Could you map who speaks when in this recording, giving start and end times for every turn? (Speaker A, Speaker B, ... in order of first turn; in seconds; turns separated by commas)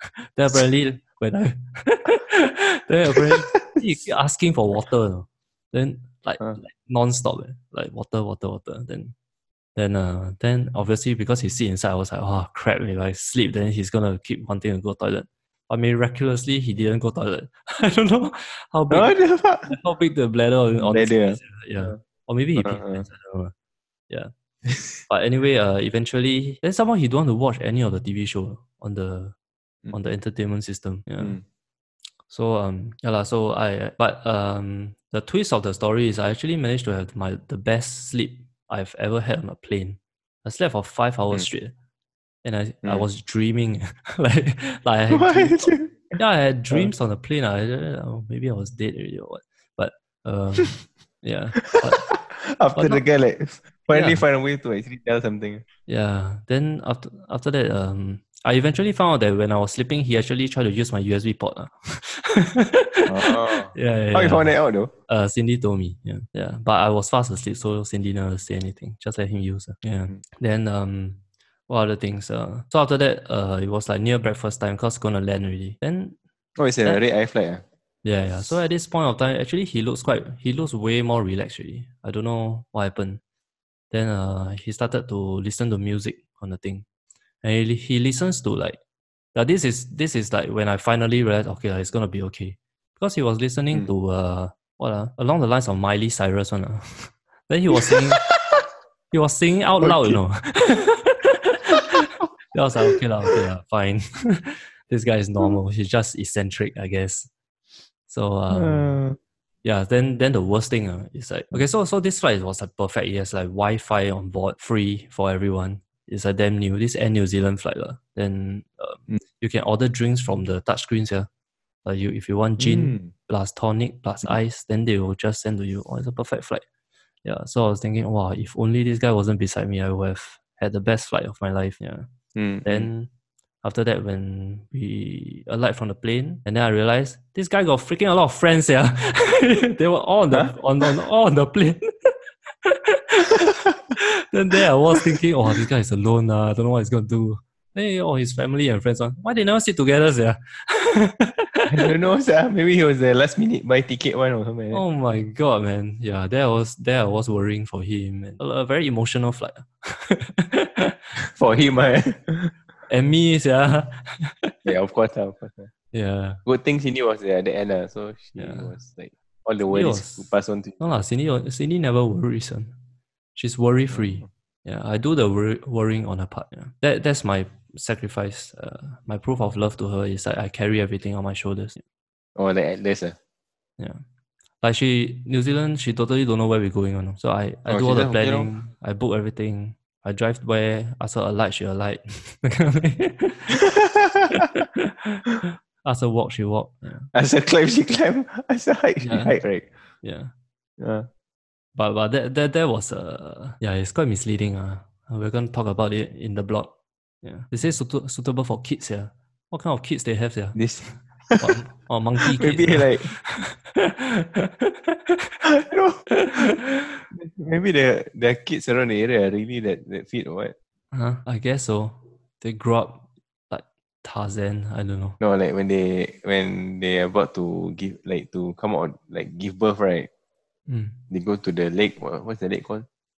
Speaker A: 0.3-9.1, Speaker B: 3.1-3.8, Speaker A: 9.8-19.2, Speaker B: 18.9-19.7, Speaker A: 19.7-23.5, Speaker B: 20.8-22.0, Speaker B: 22.6-23.1, Speaker B: 24.7-25.0, Speaker A: 25.1-29.3, Speaker A: 29.9-31.4, Speaker A: 32.3-41.7, Speaker A: 42.4-52.1, Speaker B: 45.1-46.2, Speaker B: 51.6-55.6, Speaker A: 52.8-53.0, Speaker A: 53.9-54.2, Speaker A: 55.9-64.6, Speaker B: 63.1-64.9, Speaker A: 65.1-76.2, Speaker B: 76.6-77.6, Speaker A: 78.0-83.2, Speaker A: 83.9-86.8, Speaker A: 87.4-88.8, Speaker A: 89.3-98.2, Speaker B: 97.8-98.6, Speaker A: 99.1-107.3, Speaker B: 99.8-100.2, Speaker B: 102.9-103.4, Speaker A: 108.1-109.0, Speaker B: 108.5-109.2, Speaker A: 109.6-121.3, Speaker A: 121.8-126.6, Speaker B: 122.6-123.1, Speaker A: 127.2-132.1, Speaker B: 132.3-132.9, Speaker A: 132.7-133.1, Speaker A: 133.6-142.1, Speaker B: 140.3-140.6, Speaker A: 142.7-151.9, Speaker B: 143.3-143.8, Speaker B: 144.9-145.6, Speaker B: 151.7-154.8, Speaker A: 154.7-161.0, Speaker B: 161.2-162.5, Speaker A: 162.9-164.7, Speaker B: 164.7-165.7, Speaker A: 165.9-166.4, Speaker B: 166.5-171.0, Speaker A: 168.4-168.7, Speaker A: 169.7-172.8, Speaker A: 173.3-181.8, Speaker B: 173.9-174.2, Speaker B: 182.4-183.2, Speaker A: 184.6-193.6, Speaker B: 187.7-188.5, Speaker B: 193.6-194.5, Speaker A: 194.3-197.1, Speaker B: 197.1-199.7, Speaker A: 199.0-199.4, Speaker A: 200.0-200.3, Speaker B: 200.8-201.1, Speaker A: 201.8-206.7, Speaker A: 207.2-210.6, Speaker B: 210.6-211.5, Speaker A: 211.4-215.4, Speaker B: 212.3-213.1, Speaker B: 215.4-216.5, Speaker A: 216.1-217.1, Speaker B: 217.1-220.6, Speaker A: 220.9-225.2, Speaker B: 225.2-230.1, Speaker A: 230.7-231.0, Speaker B: 231.1-232.9